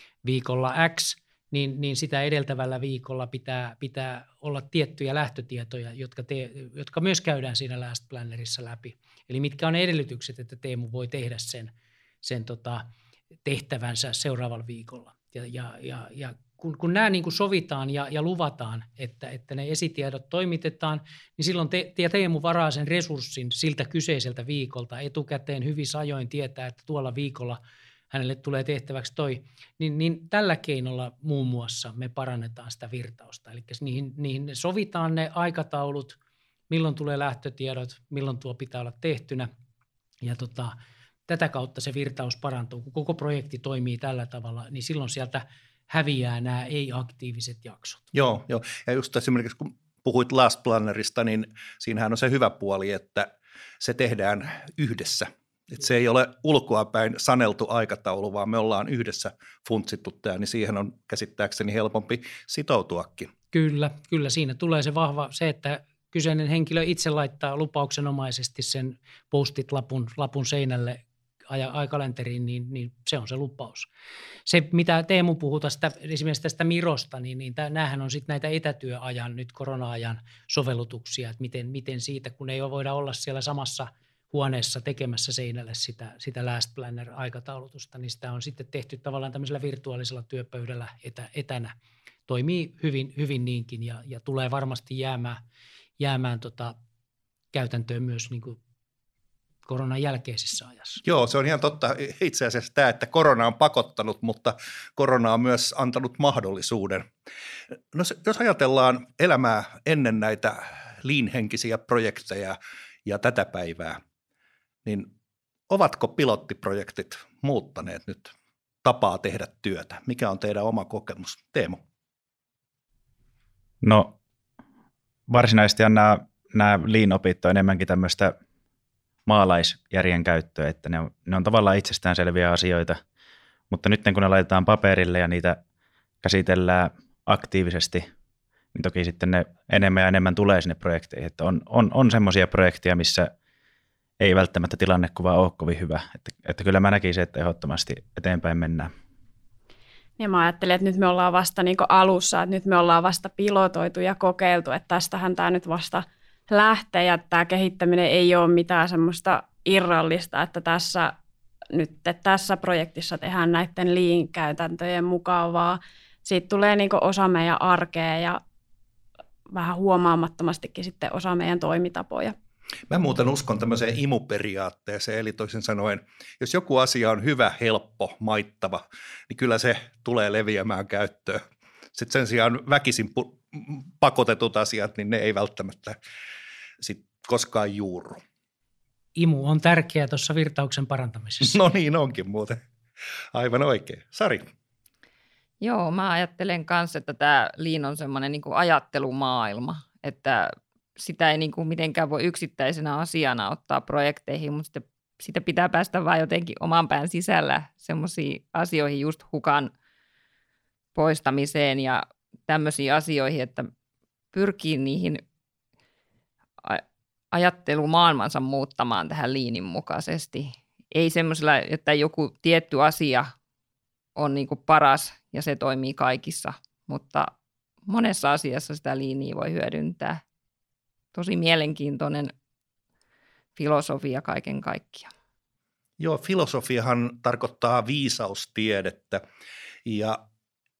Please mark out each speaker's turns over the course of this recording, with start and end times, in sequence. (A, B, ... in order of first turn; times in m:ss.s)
0:00.2-0:11.7 A
0:12.2-0:12.9 A
0:13.4-0:27.6 A
0:28.1-0:36.2 A
0:36.7-0:39.5 A
0:40.2-0:40.8 A
0:41.3-0:48.1 A
0:48.1-1:03.3 B
1:03.5-1:13.9 A
1:14.5-1:31.7 A
1:32.3-1:35.4 A
1:36.0-1:36.8 A
1:37.5-1:38.6 A
1:39.7-1:41.0 A
1:41.0-1:47.1 B
1:47.9-1:54.0 B
1:54.8-1:55.1 B
1:55.7-1:58.3 B
1:58.8-2:01.8 B
2:03.8-2:04.2 C
2:05.3-2:08.4 C
2:09.3-2:13.0 C
2:13.7-2:15.6 C
2:16.2-2:18.1 C
2:18.7-2:23.3 C
2:24.2-2:28.9 C
2:30.2-2:41.1 D
2:41.7-2:48.4 D
2:49.5-2:52.3 D
2:52.9-3:01.4 B
3:01.9-3:06.0 B
3:06.8-3:08.2 B
3:09.2-3:11.6 A
3:11.4-3:12.6 B
3:13.3-3:14.4 B
3:15.6-3:29.7 E
3:31.0-3:33.7 E
3:34.3-3:35.2 E
3:36.6-3:43.3 E
3:44.2-3:47.3 E
3:47.9-3:50.2 E
3:51.1-3:52.3 E
3:53.6-3:55.1 E
3:56.0-3:59.2 B
3:59.8-4:00.2 B